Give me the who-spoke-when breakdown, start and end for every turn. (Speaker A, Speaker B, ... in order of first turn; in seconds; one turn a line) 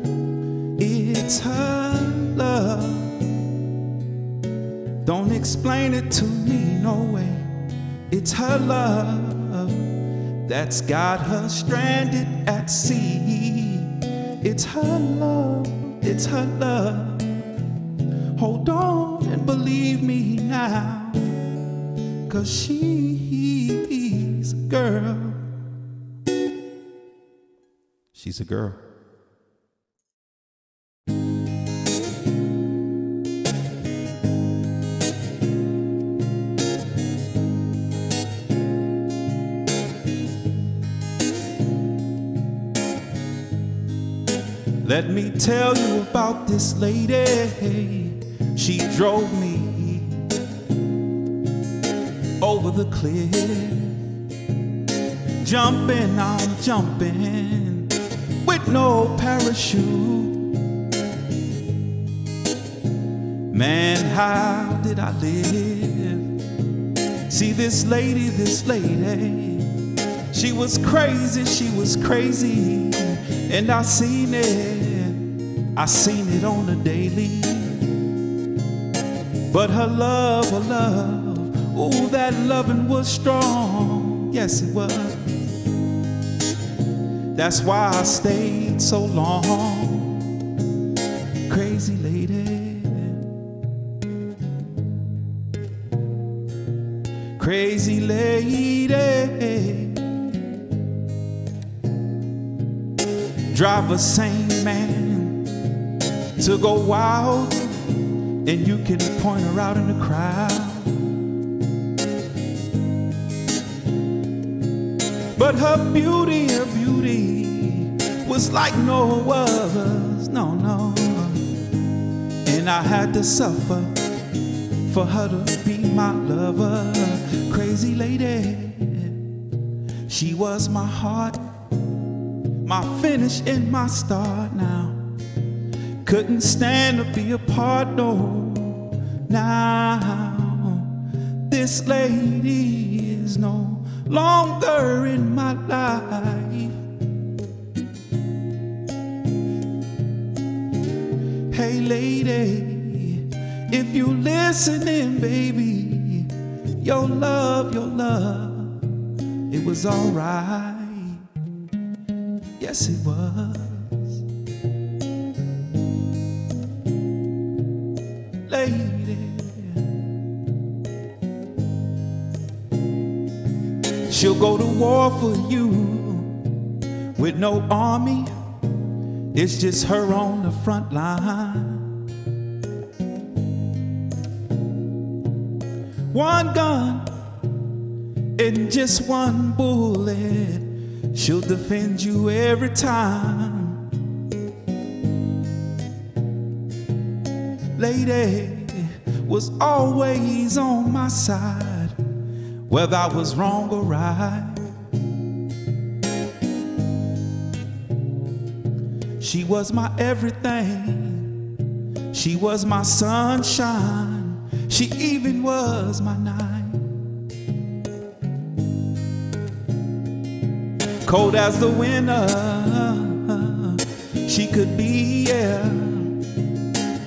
Speaker A: 0.8-3.5
Speaker A: 5.0-7.5
Speaker A: 8.1-9.9
Speaker A: 10.4-17.3
Speaker A: 18.4-21.4
Speaker A: 22.3-25.5
Speaker A: 28.1-28.8
Speaker A: 44.8-50.4
Speaker A: 52.4-54.1
Speaker A: 55.4-57.9
Speaker A: 58.4-60.7
Speaker A: 63.5-66.4
Speaker A: 67.3-78.0
Speaker A: 79.5-85.5
Speaker A: 87.3-90.4
Speaker A: 91.5-93.3
Speaker A: 97.4-100.3
Speaker A: 103.5-105.5
Speaker A: 106.4-111.3
Speaker A: 115.3-121.5
Speaker A: 122.5-124.0
Speaker A: 124.9-129.3
Speaker A: 130.1-131.4
Speaker A: 132.6-135.1
Speaker A: 136.1-146.8
Speaker A: 151.5-161.3
Speaker A: 162.6-164.2
Speaker A: 168.5-170.0
Speaker A: 174.1-176.7
Speaker A: 177.2-178.3
Speaker A: 179.3-182.0
Speaker A: 186.1-187.1
Speaker A: 188.4-194.0
Speaker A: 197.8-202.0
Speaker A: 202.7-204.7
Speaker A: 209.2-211.5
Speaker A: 212.1-217.1
Speaker A: 221.0-226.2